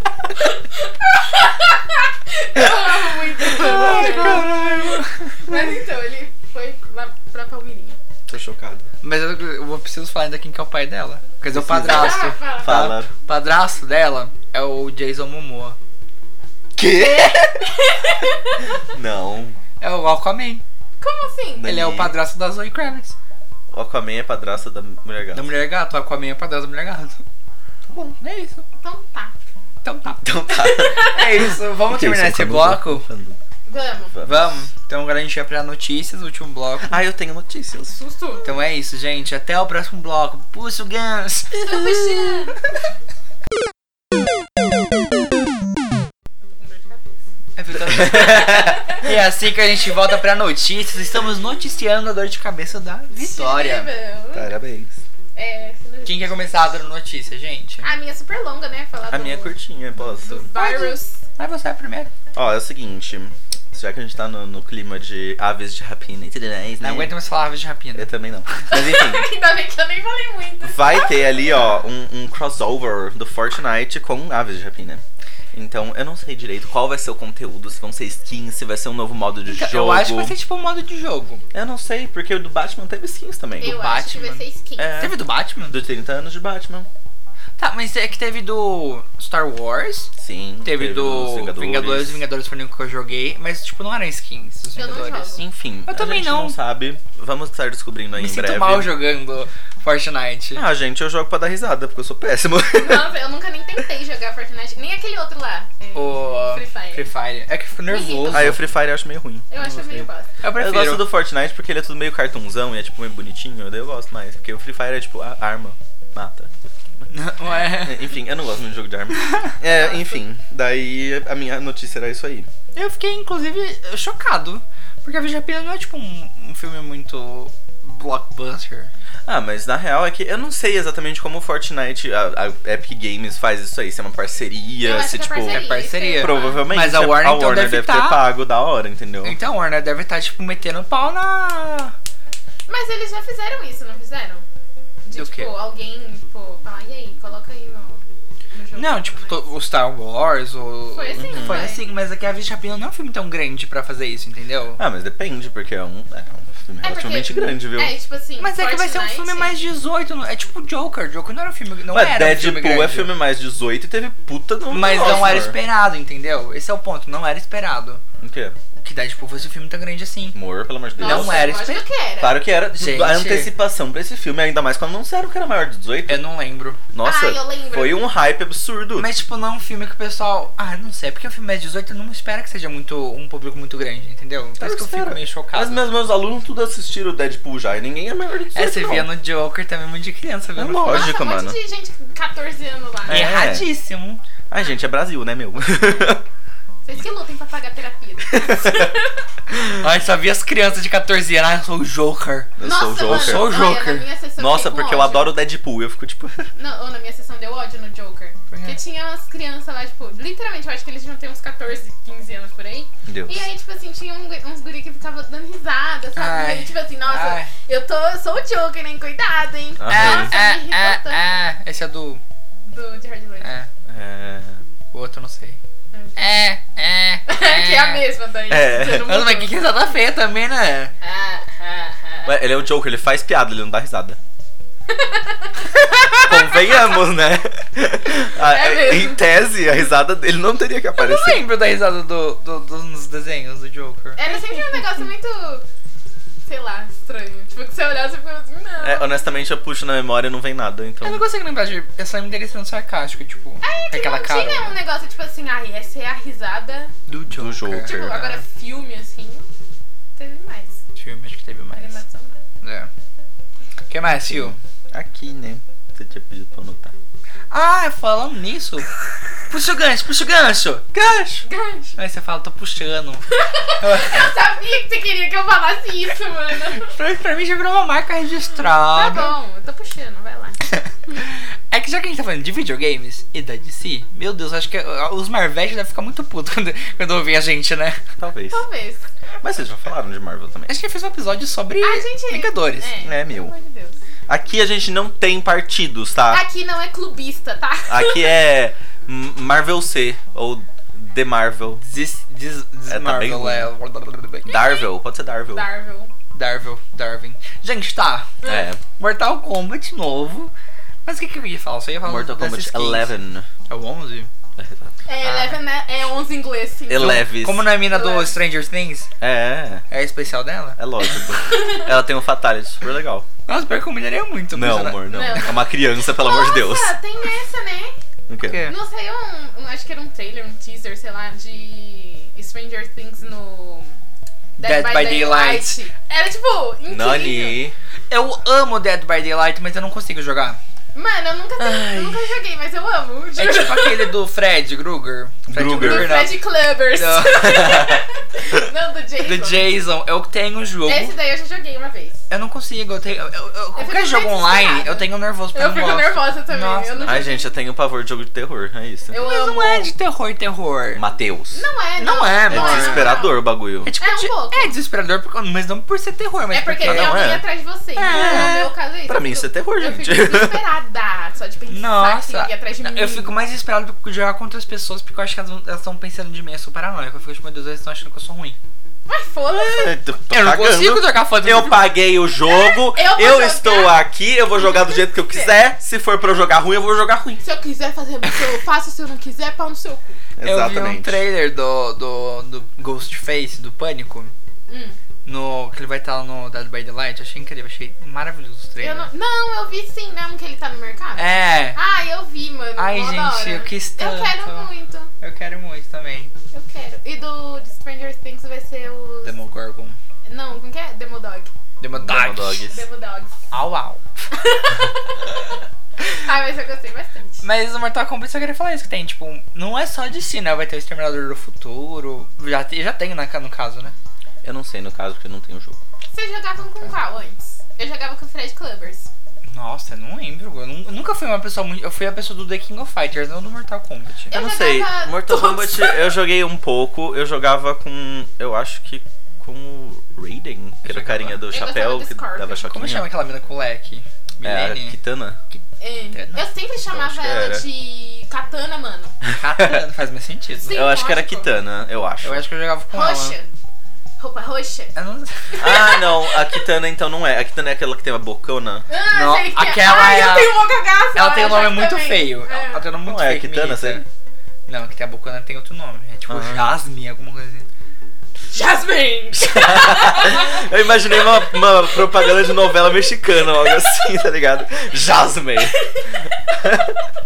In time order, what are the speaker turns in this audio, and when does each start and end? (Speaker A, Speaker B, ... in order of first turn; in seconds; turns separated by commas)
Speaker A: 0.4-8.0, Speaker B: 3.5-5.3, Speaker C: 8.3-8.9, Speaker B: 9.0-15.8, Speaker C: 11.5-13.1, Speaker A: 11.9-12.8, Speaker C: 16.8-17.6, Speaker A: 17.7-18.7, Speaker C: 18.9-19.6, Speaker B: 19.8-20.6, Speaker A: 21.0-21.7, Speaker C: 21.6-22.2, Speaker B: 21.6-23.1, Speaker C: 23.7-25.5, Speaker B: 25.3-27.2, Speaker C: 27.9-28.2, Speaker B: 28.2-28.6, Speaker A: 28.8-29.3, Speaker B: 29.8-30.2, Speaker C: 30.2-33.4, Speaker A: 30.5-31.3, Speaker B: 31.1-33.1, Speaker A: 33.7-34.2, Speaker C: 34.1-34.6, Speaker B: 34.3-36.9, Speaker C: 36.9-38.0, Speaker A: 37.9-38.5, Speaker B: 38.4-42.5, Speaker A: 41.5-42.6, Speaker A: 46.4-47.2, Speaker B: 47.6-53.9, Speaker C: 47.9-48.7, Speaker A: 53.2-54.5, Speaker C: 54.3-55.0, Speaker A: 55.4-56.5, Speaker B: 56.0-57.9, Speaker A: 57.8-59.6, Speaker C: 59.1-60.5, Speaker A: 60.2-61.2, Speaker B: 60.5-62.1, Speaker C: 62.3-67.2, Speaker B: 66.8-68.6, Speaker C: 68.0-69.3, Speaker A: 68.7-71.5, Speaker C: 70.7-75.0, Speaker C: 75.5-80.4, Speaker B: 79.5-81.4, Speaker C: 81.5-83.8, Speaker B: 83.6-84.4, Speaker A: 83.6-85.0, Speaker C: 84.8-86.9, Speaker B: 85.0-85.8, Speaker B: 87.6-90.1, Speaker C: 90.2-92.2, Speaker B: 90.6-96.6, Speaker A: 94.8-95.4, Speaker C: 95.3-99.0, Speaker B: 98.2-100.7, Speaker C: 100.5-103.1, Speaker A: 102.7-107.1, Speaker B: 106.0-108.7, Speaker A: 107.9-108.6, Speaker C: 108.3-109.5, Speaker A: 109.5-110.3, Speaker B: 109.6-111.1, Speaker C: 110.6-117.1, Speaker B: 117.1-118.2, Speaker C: 117.8-122.5, Speaker B: 119.2-119.5, Speaker A: 119.6-120.2, Speaker B: 122.7-128.9, Speaker C: 129.3-139.4, Speaker A: 134.8-136.7, Speaker B: 135.5-138.3, Speaker B: 139.2-141.9, Speaker A: 142.7-144.4, Speaker A: 145.1-149.5, Speaker B: 145.2-145.5, Speaker B: 148.7-154.8, Speaker A: 150.9-151.8, Speaker C: 151.2-151.7, Speaker C: 154.8-157.9, Speaker A: 156.8-159.6, Speaker B: 158.4-163.2, Speaker C: 161.9-165.6, Speaker B: 164.7-168.0, Speaker A: 164.9-165.5, Speaker C: 168.2-168.6, Speaker B: 168.8-170.4, Speaker C: 170.3-171.5, Speaker A: 171.0-172.4, Speaker B: 171.0-171.8, Speaker C: 172.2-176.2, Speaker B: 172.7-173.5, Speaker B: 176.1-176.8, Speaker C: 176.9-179.1, Speaker A: 177.0-178.1, Speaker B: 179.0-185.9, Speaker C: 184.6-189.1, Speaker B: 188.6-191.1, Speaker C: 190.6-191.6, Speaker A: 190.8-193.3, Speaker B: 193.1-194.2, Speaker C: 193.1-193.7, Speaker C: 194.5-196.2, Speaker A: 196.8-199.2, Speaker B: 199.8-204.1, Speaker C: 202.6-203.5, Speaker A: 202.6-205.4, Speaker C: 204.4-206.5, Speaker A: 206.6-221.4, Speaker B: 208.5-208.8, Speaker C: 213.1-213.5, Speaker B: 216.2-217.5, Speaker C: 219.8-220.3, Speaker B: 219.9-222.2, Speaker A: 222.7-223.6, Speaker B: 223.4-223.7, Speaker C: 223.9-224.6, Speaker B: 224.9-225.6, Speaker A: 225.9-226.4, Speaker B: 226.2-228.1, Speaker A: 227.3-229.8, Speaker C: 228.5-229.1, Speaker B: 229.0-230.9, Speaker A: 231.0-232.4, Speaker C: 232.3-234.2, Speaker A: 234.9-236.8, Speaker C: 236.2-241.4, Speaker A: 238.4-239.3, Speaker B: 241.0-244.2, Speaker A: 244.2-245.7, Speaker A: 246.5-249.2, Speaker C: 248.8-251.2, Speaker B: 251.0-254.8, Speaker A: 253.6-256.9, Speaker B: 257.1-258.4, Speaker C: 257.3-258.3, Speaker A: 257.8-259.5, Speaker A: 260.2-260.8, Speaker B: 261.0-262.0, Speaker A: 261.7-262.4, Speaker B: 262.6-262.9, Speaker B: 263.9-264.6, Speaker C: 264.1-266.9, Speaker B: 267.5-268.9, Speaker B: 269.5-270.9, Speaker C: 270.9-271.4, Speaker A: 271.4-272.0, Speaker B: 272.0-273.2, Speaker A: 273.3-276.9, Speaker B: 273.8-274.3, Speaker B: 276.8-279.3, Speaker A: 278.8-280.6, Speaker B: 280.7-288.0, Speaker C: 288.2-288.6, Speaker A: 288.5-289.1, Speaker C: 289.4-290.7, Speaker B: 290.7-292.9, Speaker A: 291.8-294.0, Speaker C: 293.0-293.5, Speaker C: 294.3-296.4, Speaker A: 296.3-298.4, Speaker C: 297.9-301.8, Speaker B: 301.8-304.5, Speaker C: 302.9-303.7, Speaker C: 304.5-305.7, Speaker A: 304.5-304.9, Speaker A: 305.5-306.1, Speaker B: 306.3-308.3, Speaker A: 308.4-308.7, Speaker C: 308.4-308.8, Speaker B: 309.0-310.5, Speaker B: 311.1-313.1, Speaker C: 312.1-313.5, Speaker B: 313.7-314.3, Speaker C: 314.6-315.4, Speaker A: 315.1-317.3, Speaker C: 316.9-317.7, Speaker B: 317.0-319.1, Speaker A: 317.9-318.4, Speaker C: 319.2-319.8, Speaker B: 319.9-320.8, Speaker C: 320.8-323.3, Speaker A: 321.3-321.9, Speaker B: 323.5-325.2, Speaker C: 324.5-326.9, Speaker A: 325.1-327.9, Speaker C: 328.3-328.6, Speaker B: 328.4-328.8, Speaker A: 328.7-333.9, Speaker B: 334.6-335.8, Speaker A: 334.6-337.6, Speaker C: 336.9-337.8, Speaker B: 338.1-340.6, Speaker A: 340.9-344.1, Speaker C: 341.6-342.2, Speaker B: 343.4-347.6, Speaker C: 345.5-346.2, Speaker A: 345.8-349.8, Speaker C: 347.4-348.0, Speaker B: 349.2-351.1, Speaker A: 350.9-352.2, Speaker B: 352.3-357.3, Speaker A: 353.8-357.5, Speaker C: 357.1-359.1, Speaker A: 359.1-359.9, Speaker B: 359.1-361.0, Speaker C: 360.9-361.6, Speaker A: 361.5-363.4, Speaker B: 362.0-363.2, Speaker C: 362.5-363.9, Speaker B: 363.8-367.2, Speaker A: 364.0-364.8, Speaker A: 366.5-373.3, Speaker C: 366.8-367.4, Speaker B: 368.0-368.7, Speaker C: 368.1-368.6, Speaker C: 369.1-370.6, Speaker B: 371.7-378.6, Speaker A: 379.1-380.0, Speaker C: 379.5-387.4, Speaker B: 380.3-381.9, Speaker A: 382.4-385.6, Speaker A: 387.4-390.2, Speaker C: 390.4-391.2, Speaker B: 390.4-394.3, Speaker A: 394.7-395.0, Speaker B: 395.3-399.1, Speaker A: 398.8-405.1, Speaker B: 401.2-401.8, Speaker B: 402.8-404.7, Speaker B: 405.2-406.3, Speaker A: 406.5-409.3, Speaker B: 409.2-410.0, Speaker A: 410.3-411.5, Speaker B: 411.8-412.6, Speaker C: 411.9-412.8, Speaker A: 412.7-413.4, Speaker B: 413.5-414.0, Speaker A: 414.3-415.4, Speaker A: 416.2-417.4, Speaker B: 417.4-423.9, Speaker C: 424.4-425.8, Speaker A: 426.1-429.1, Speaker B: 429.5-434.4, Speaker A: 434.3-436.2, Speaker C: 434.3-443.1, Speaker B: 440.8-441.4, Speaker A: 441.5-442.7, Speaker B: 442.7-445.0, Speaker C: 444.4-445.4, Speaker A: 445.8-449.1, Speaker B: 446.1-446.4, Speaker C: 446.9-447.7, Speaker B: 449.4-450.8, Speaker A: 450.6-451.5, Speaker C: 450.7-452.4, Speaker B: 452.2-453.4, Speaker A: 452.9-453.5, Speaker A: 454.2-454.9, Speaker B: 454.9-455.7, Speaker A: 455.5-456.6, Speaker C: 455.6-458.9, Speaker A: 458.9-462.9, Speaker B: 459.1-460.6, Speaker B: 461.1-464.0, Speaker C: 463.0-464.0, Speaker B: 464.7-467.7, Speaker C: 466.3-466.7, Speaker A: 468.5-474.0, Speaker C: 469.3-475.9, Speaker A: 475.6-476.6, Speaker C: 476.6-476.9